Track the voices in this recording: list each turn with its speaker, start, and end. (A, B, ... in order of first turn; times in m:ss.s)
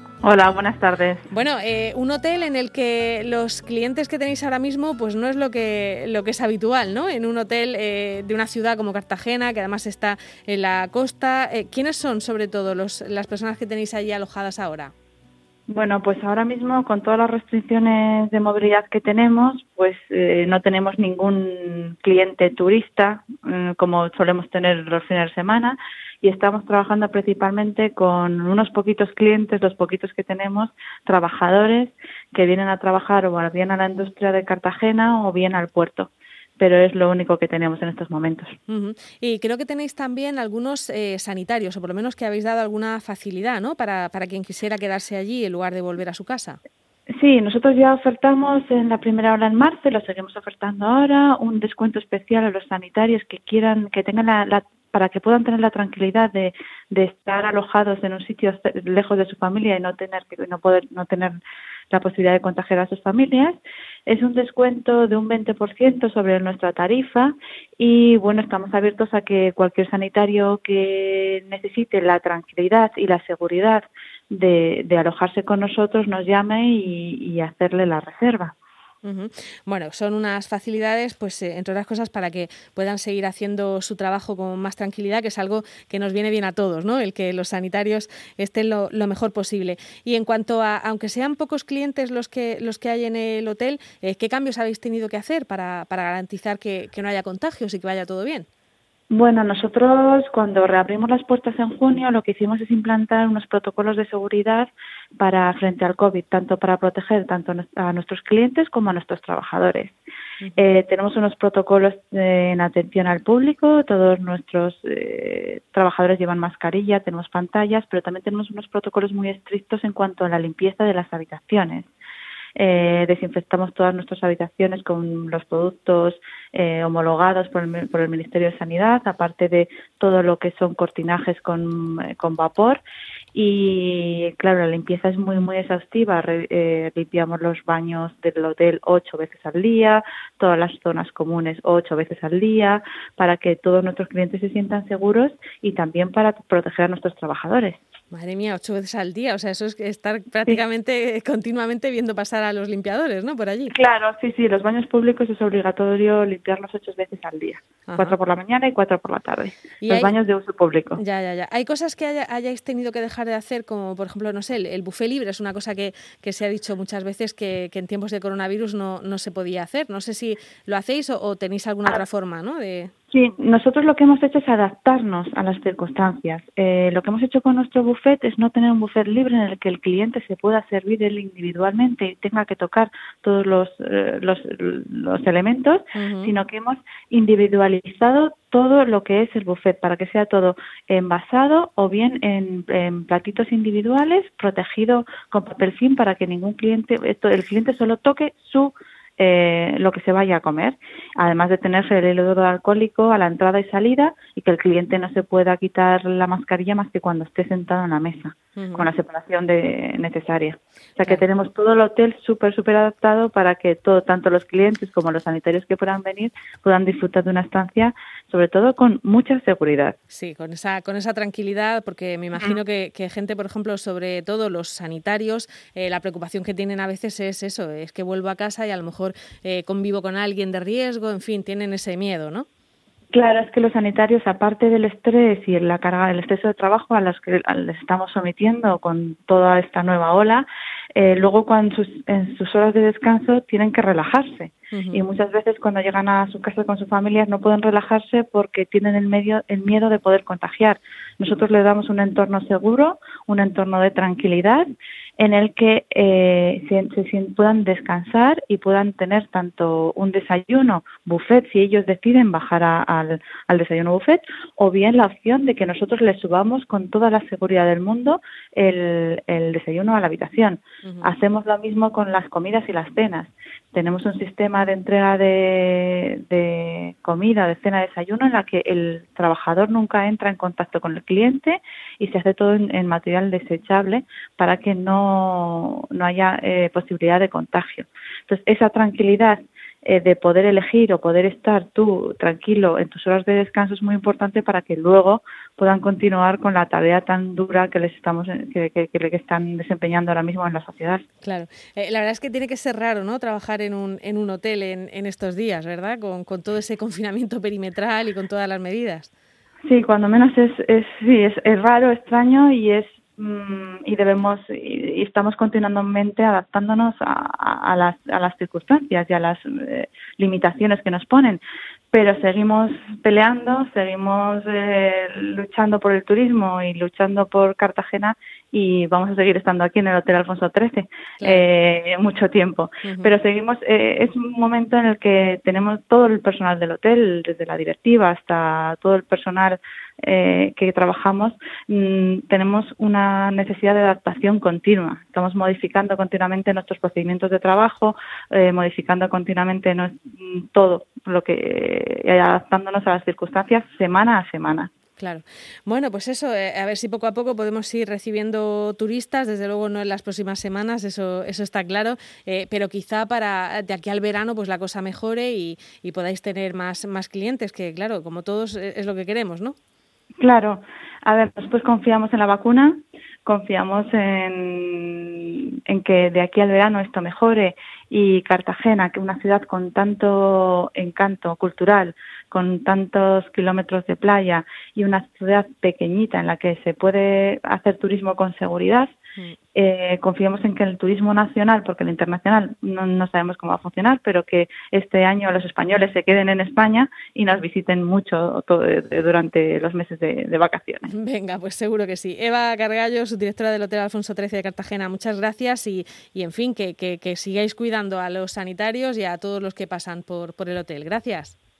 0:00.2-0:01.3 A
0:01.3-0:14.9 B
0:15.7-0:38.6 A
0:38.7-0:46.6 B
0:47.2-1:01.4 A
1:01.9-1:18.5 A
1:19.0-1:38.5 B
1:39.1-1:50.0 A
1:50.6-2:01.9 A
2:02.6-2:12.8 A
2:13.3-2:27.8 A
2:28.1-2:33.7 B
2:33.7-2:41.0 A
2:37.9-2:38.1 B
2:39.8-2:40.1 B
2:41.0-2:52.9 B
2:53.1-3:39.9 A
3:05.9-3:06.3 B
3:28.6-3:28.9 B
3:40.1-3:52.4 B
3:53.1-4:00.4 A
4:01.0-4:14.6 A
4:04.7-4:05.0 B
4:15.2-5:01.0 A
4:30.8-4:31.1 B
5:01.2-5:09.1 B
5:09.6-5:21.4 A
5:21.9-5:54.7 A
5:31.2-5:31.5 B
5:32.8-5:33.1 B
5:55.0-6:09.6 B
6:10.2-6:28.9 A
6:29.5-6:40.9 A
6:40.9-6:51.4 B